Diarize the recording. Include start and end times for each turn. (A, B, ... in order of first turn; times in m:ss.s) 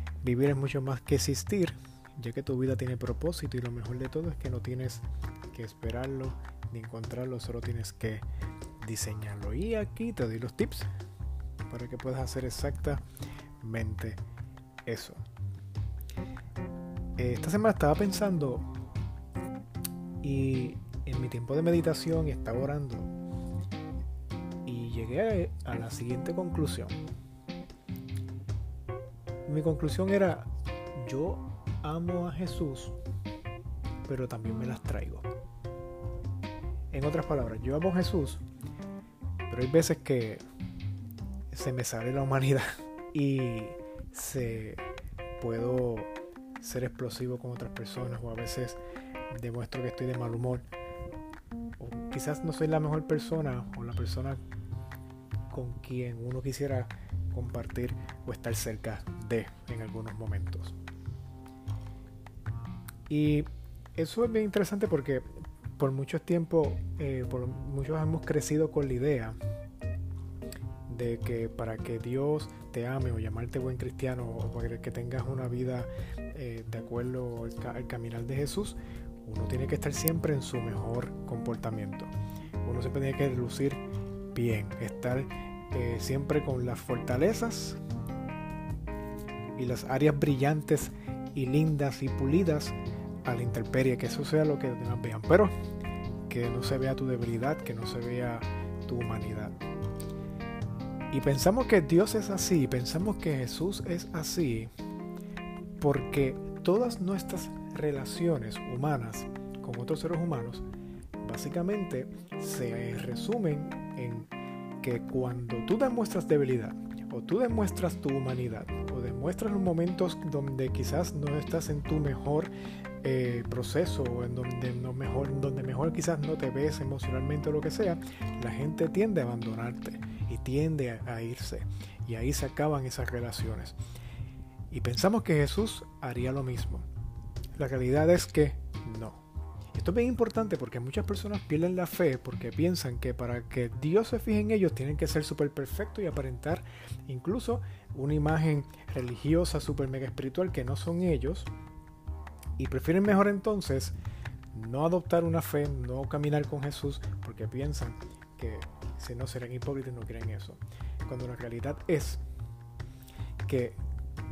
0:00.2-0:08.2 A
0:08.8-0:10.9 A
0:11.7-0:13.0 A
0:13.6-0:14.2 A
0:14.8-0:15.2 A
0:17.2-0:18.6 A
0:20.2-0:23.1 A
0:24.6-0:27.0 A
0:29.4-0:33.0 A
0:34.1-0:35.2 A
0:36.9-0:38.4 A
0:39.5-0:40.4 A
0:41.5-0:44.8 A
0:45.4-0:50.6 A
0:51.8-0:54.4 A
0:55.5-1:00.7 A
1:03.1-1:09.4 A
1:10.9-1:23.8 A
1:24.3-1:27.8 A
1:29.6-1:35.5 A
1:36.3-1:39.6 A
1:41.1-1:44.7 A
1:45.8-1:50.6 A
1:51.2-1:54.3 A
1:54.8-2:13.8 A
2:14.7-2:16.9 A
2:17.6-2:19.2 A
2:19.7-2:31.5 A
2:32.6-2:34.0 A
2:34.5-2:42.2 A
2:43.4-2:43.8 A